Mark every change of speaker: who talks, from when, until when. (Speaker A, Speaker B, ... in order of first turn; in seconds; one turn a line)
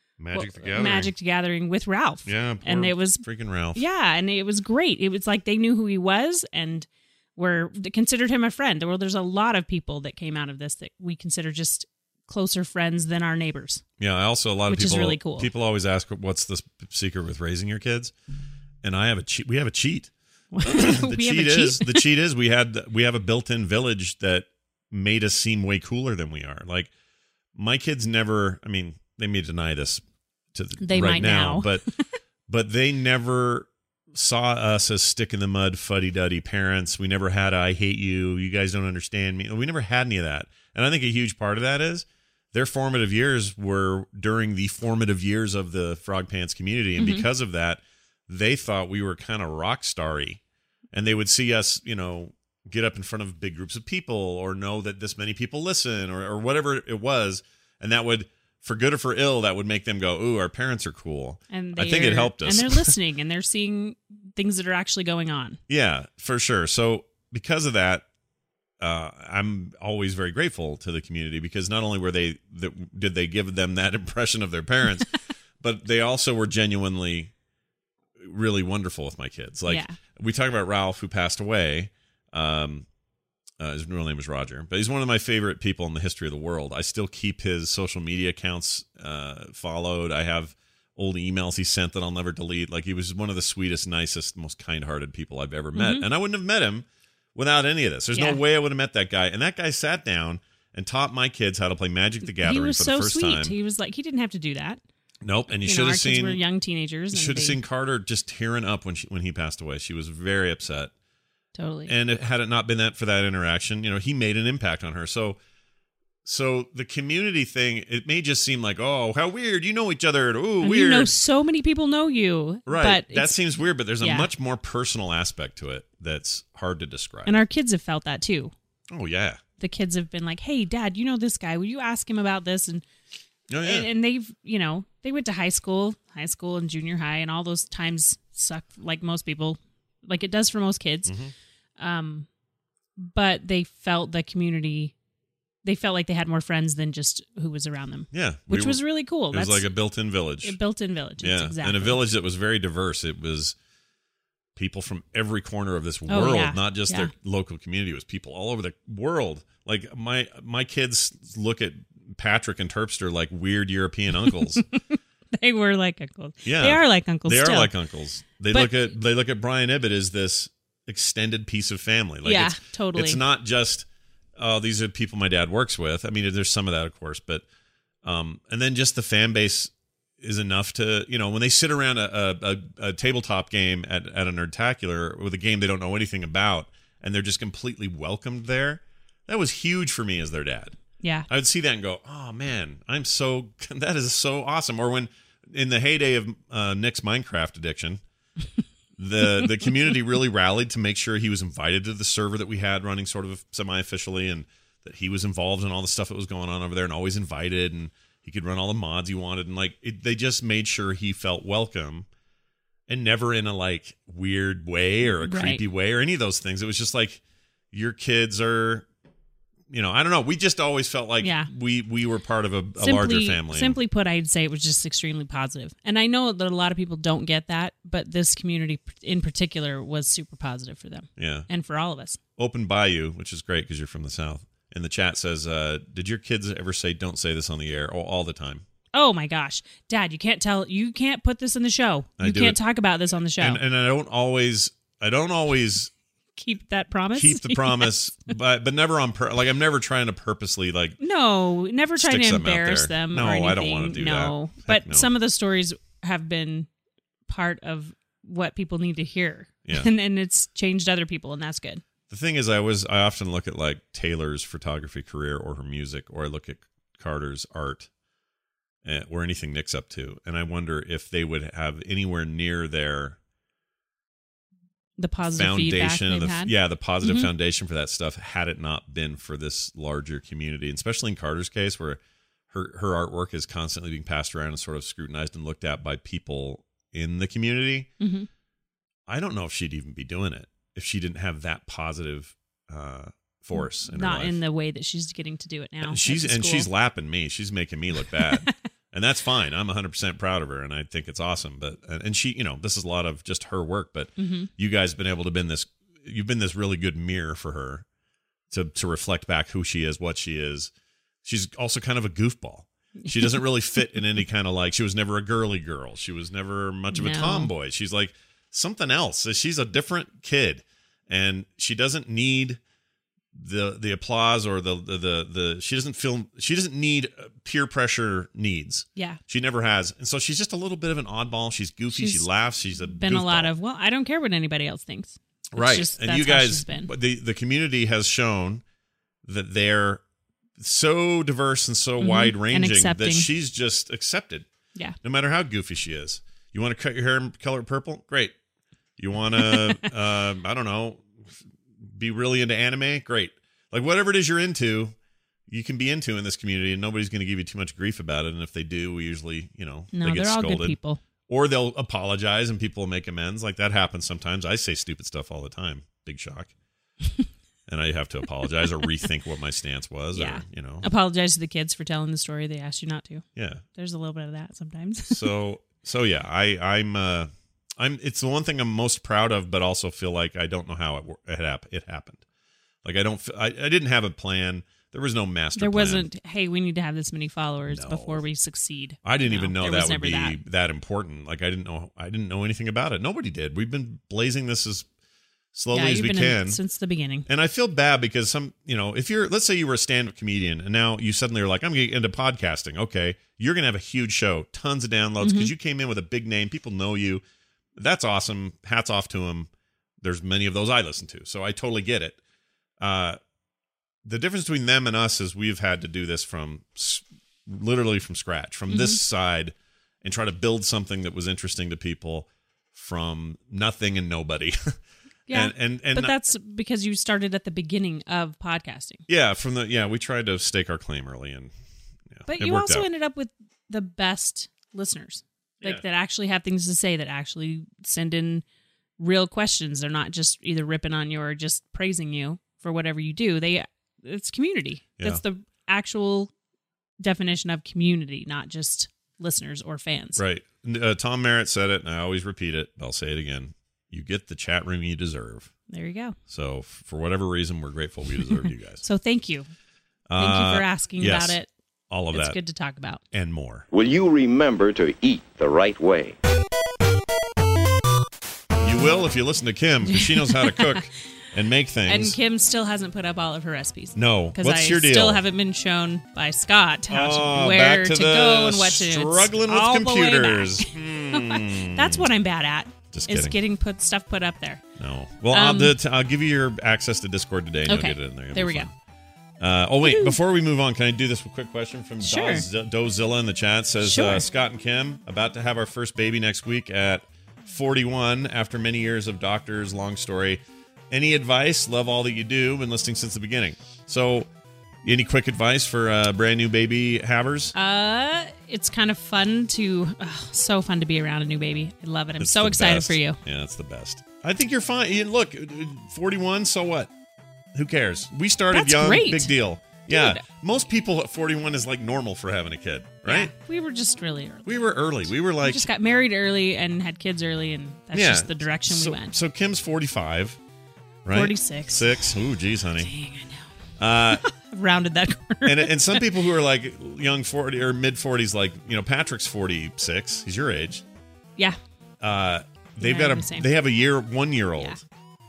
Speaker A: 0.2-1.1
Speaker B: 0.3-3.2
Speaker A: 2.3-3.8
Speaker B: 3.8-13.8
Speaker A: 14.0-18.1
Speaker B: 14.7-15.5
Speaker A: 18.8-20.1
Speaker B: 20.5-22.1
Speaker A: 20.6-26.9
Speaker A: 27.6-30.0
Speaker A: 30.5-31.8
Speaker B: 30.8-32.0
Speaker A: 32.5-50.4
Speaker B: 47.0-47.3
Speaker A: 50.9-62.9
Speaker B: 61.5-65.6
Speaker A: 65.7-68.0
Speaker A: 68.8-75.1
Speaker A: 75.6-77.3
Speaker A: 78.2-82.8
Speaker B: 79.7-80.0
Speaker A: 83.6-103.5
Speaker B: 95.8-96.1
Speaker B: 98.2-98.4
Speaker B: 102.4-104.8
Speaker A: 105.2-106.4
Speaker B: 105.6-107.6
Speaker A: 107.1-110.9
Speaker B: 111.6-111.9
Speaker A: 111.9-115.4
Speaker A: 116.2-121.1
Speaker B: 120.6-123.3
Speaker A: 122.7-127.4
Speaker B: 124.0-124.3
Speaker B: 127.3-128.5
Speaker A: 128.9-129.4
Speaker B: 129.6-132.8
Speaker A: 133.5-133.9
Speaker B: 133.6-141.1
Speaker A: 141.1-141.3
Speaker B: 141.8-142.3
Speaker B: 143.0-144.9
Speaker B: 145.6-149.7
Speaker A: 148.1-150.6
Speaker B: 150.4-152.0
Speaker A: 151.2-153.6
Speaker A: 154.6-164.7
Speaker B: 156.1-157.1
Speaker B: 164.3-167.7
Speaker A: 166.4-173.9
Speaker B: 168.5-168.8
Speaker B: 172.2-173.2
Speaker A: 174.4-177.4
Speaker A: 178.0-190.8
Speaker B: 191.0-191.3
Speaker A: 191.3-198.0
Speaker A: 199.0-212.1
Speaker A: 212.9-217.2
Speaker B: 215.2-215.6
Speaker A: 217.7-218.8
Speaker A: 219.7-223.8
Speaker B: 221.2-221.5
Speaker B: 222.8-232.2
Speaker A: 231.2-231.5
Speaker A: 232.4-238.6
Speaker B: 238.9-243.6
Speaker A: 242.2-242.6
Speaker A: 243.4-245.9
Speaker B: 246.4-247.9
Speaker A: 247.2-251.0
Speaker B: 251.0-256.7
Speaker A: 252.0-255.1
Speaker B: 257.3-261.8
Speaker A: 262.1-267.9
Speaker A: 268.8-273.2
Speaker B: 275.0-277.3
Speaker A: 275.3-282.0
Speaker A: 282.5-287.9
Speaker B: 288.0-288.3
Speaker A: 289.1-294.4
Speaker B: 293.6-296.7
Speaker A: 295.9-307.8
Speaker B: 298.1-298.5
Speaker B: 304.2-304.5
Speaker A: 308.5-310.7
Speaker A: 311.2-322.6
Speaker B: 313.0-314.0
Speaker B: 316.9-317.5
Speaker A: 323.3-333.5
Speaker B: 331.9-332.2
Speaker B: 332.9-336.9
Speaker A: 335.5-338.6
Speaker A: 339.2-340.0
Speaker A: 340.6-344.5
Speaker B: 342.0-343.3
Speaker A: 345.0-348.4
Speaker A: 349.0-354.9
Speaker B: 349.4-349.8
Speaker A: 355.5-366.5
Speaker B: 359.9-361.0
Speaker A: 367.7-370.9
Speaker B: 370.1-375.3
Speaker A: 373.4-373.6
Speaker A: 375.1-382.2
Speaker A: 382.8-386.1
Speaker B: 385.6-390.4
Speaker A: 387.7-388.2
Speaker A: 389.0-394.9
Speaker A: 395.5-396.6
Speaker B: 395.7-397.3
Speaker A: 397.3-407.2
Speaker B: 405.2-405.5
Speaker A: 407.8-409.5
Speaker A: 410.0-412.2
Speaker A: 412.8-413.2
Speaker A: 414.1-424.7
Speaker B: 418.7-419.0
Speaker B: 425.3-429.0
Speaker A: 425.3-426.2
Speaker A: 429.1-431.5
Speaker A: 432.1-432.9
Speaker B: 432.3-438.4
Speaker B: 439.0-446.3
Speaker B: 447.0-450.2
Speaker A: 450.2-455.5
Speaker B: 455.7-456.2
Speaker A: 456.3-458.8
Speaker B: 458.3-459.5
Speaker A: 460.1-461.4
Speaker B: 460.2-461.5
Speaker A: 461.9-462.4
Speaker B: 462.1-463.0
Speaker A: 463.1-463.7
Speaker C: 463.7-466.2
Speaker A: 468.6-472.2
Speaker B: 469.9-470.9
Speaker B: 471.9-484.6
Speaker A: 473.9-475.2
Speaker A: 476.9-482.1
Speaker A: 482.9-483.4
Speaker A: 484.8-488.7
Speaker B: 485.3-485.8
Speaker B: 487.7-488.7
Speaker A: 489.4-504.3
Speaker B: 489.8-490.2
Speaker B: 492.0-492.5
Speaker B: 493.8-494.3
Speaker A: 504.8-507.5
Speaker B: 507.6-513.2
Speaker A: 512.2-516.9
Speaker A: 517.5-523.3
Speaker B: 518.5-520.2
Speaker B: 523.0-524.7
Speaker A: 524.5-525.7
Speaker B: 525.4-529.1
Speaker A: 527.9-530.4
Speaker A: 531.0-532.9
Speaker B: 531.1-532.2
Speaker B: 532.8-533.5
Speaker A: 533.8-534.2
Speaker B: 534.1-536.1
Speaker A: 535.5-540.8
Speaker A: 542.0-544.8
Speaker B: 542.8-543.5